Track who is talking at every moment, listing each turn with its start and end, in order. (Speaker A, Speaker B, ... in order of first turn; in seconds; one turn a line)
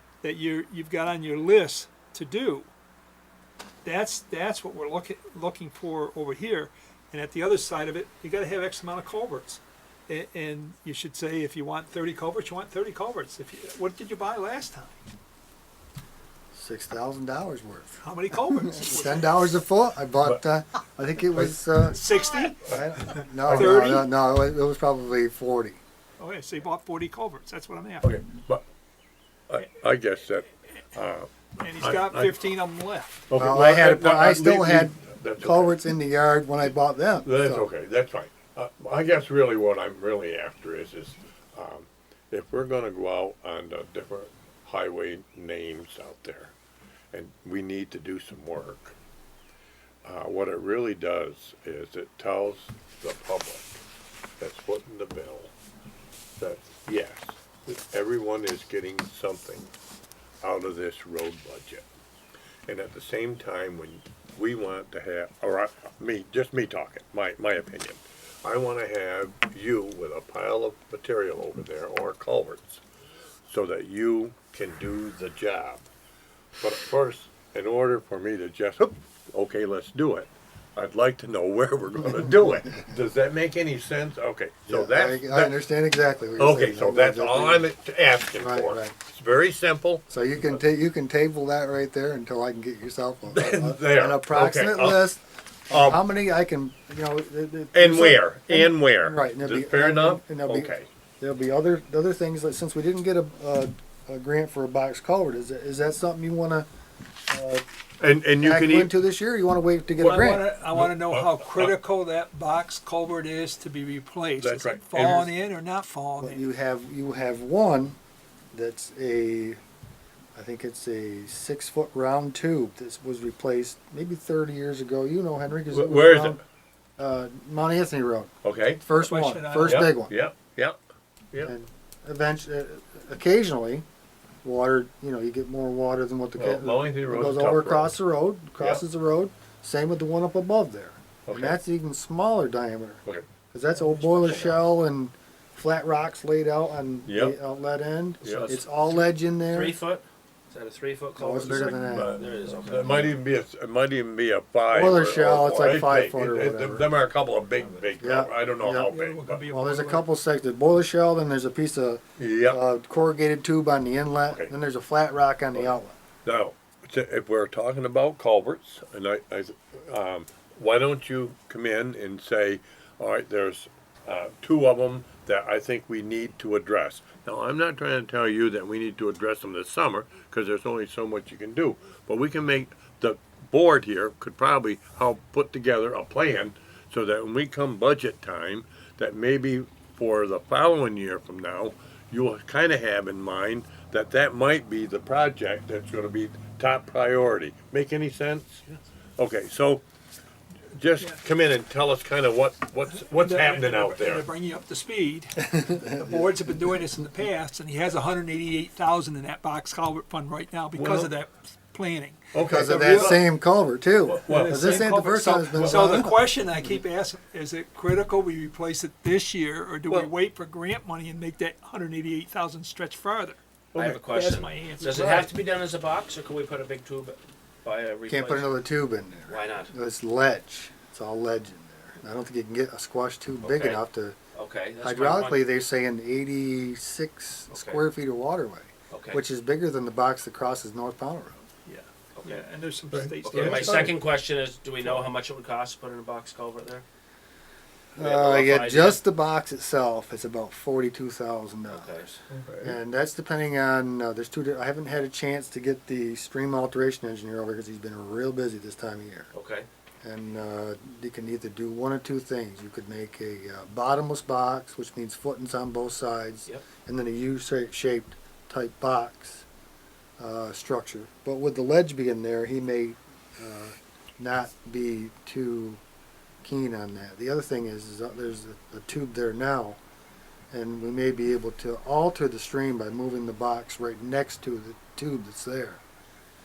Speaker A: 0.2-2.7
Speaker A: 3.8-15.0
Speaker B: 16.5-22.1
Speaker A: 18.0-19.5
Speaker A: 21.9-24.1
Speaker B: 22.6-25.8
Speaker C: 23.5-23.7
Speaker A: 26.2-28.1
Speaker C: 28.0-28.6
Speaker C: 29.5-32.4
Speaker A: 31.6-33.2
Speaker C: 33.3-35.8
Speaker B: 33.4-37.7
Speaker C: 37.2-46.5
Speaker C: 47.1-49.0
Speaker C: 50.0-53.8
Speaker C: 54.4-55.5
Speaker C: 56.4-59.7
Speaker C: 60.4-61.9
Speaker C: 62.7-72.8
Speaker C: 73.4-75.8
Speaker C: 76.6-85.5
Speaker B: 84.7-87.7
Speaker C: 86.4-90.6
Speaker B: 88.4-88.9
Speaker B: 90.1-106.7
Speaker C: 93.3-95.1
Speaker C: 95.7-96.0
Speaker C: 97.7-100.9
Speaker B: 107.3-107.6
Speaker C: 108.0-108.9
Speaker B: 108.4-110.5
Speaker A: 110.0-116.4
Speaker C: 110.7-111.8
Speaker C: 114.4-115.3
Speaker B: 116.2-118.0
Speaker B: 118.5-119.6
Speaker B: 120.3-126.4
Speaker C: 125.7-126.4
Speaker B: 127.0-130.1
Speaker C: 128.4-128.8
Speaker A: 128.9-129.9
Speaker C: 129.6-130.8
Speaker B: 131.4-133.8
Speaker B: 134.4-149.8
Speaker C: 136.4-137.9
Speaker C: 141.3-141.6
Speaker D: 144.0-144.5
Speaker C: 147.1-147.4
Speaker C: 148.2-148.6
Speaker D: 148.2-148.5
Speaker D: 149.5-153.2
Speaker B: 151.2-152.2
Speaker C: 151.4-159.4
Speaker B: 154.7-156.9
Speaker D: 157.5-157.8
Speaker B: 158.0-158.9
Speaker A: 158.8-160.1
Speaker B: 159.5-165.9
Speaker C: 162.2-162.6
Speaker C: 165.5-199.8
Speaker C: 200.7-204.3
Speaker A: 202.9-213.2
Speaker B: 205.4-206.4
Speaker C: 210.7-211.1
Speaker C: 212.3-213.2
Speaker B: 212.4-216.3
Speaker C: 214.1-214.8
Speaker A: 214.2-223.4
Speaker C: 215.5-216.1
Speaker C: 223.7-225.3
Speaker D: 223.7-228.7
Speaker A: 224.1-225.2
Speaker B: 228.1-234.2
Speaker D: 229.3-229.7
Speaker D: 233.4-233.8
Speaker D: 234.3-235.5
Speaker B: 234.8-241.4
Speaker D: 237.5-237.8
Speaker D: 238.9-239.2
Speaker A: 241.7-243.9
Speaker D: 242.1-242.4
Speaker C: 242.9-244.0
Speaker D: 243.2-246.8
Speaker B: 247.9-252.0
Speaker D: 248.0-249.0
Speaker D: 251.7-252.2
Speaker C: 252.3-252.8
Speaker B: 252.6-259.3
Speaker D: 259.3-259.7
Speaker B: 260.0-269.4
Speaker B: 270.2-275.8
Speaker B: 276.4-279.8
Speaker B: 280.5-285.8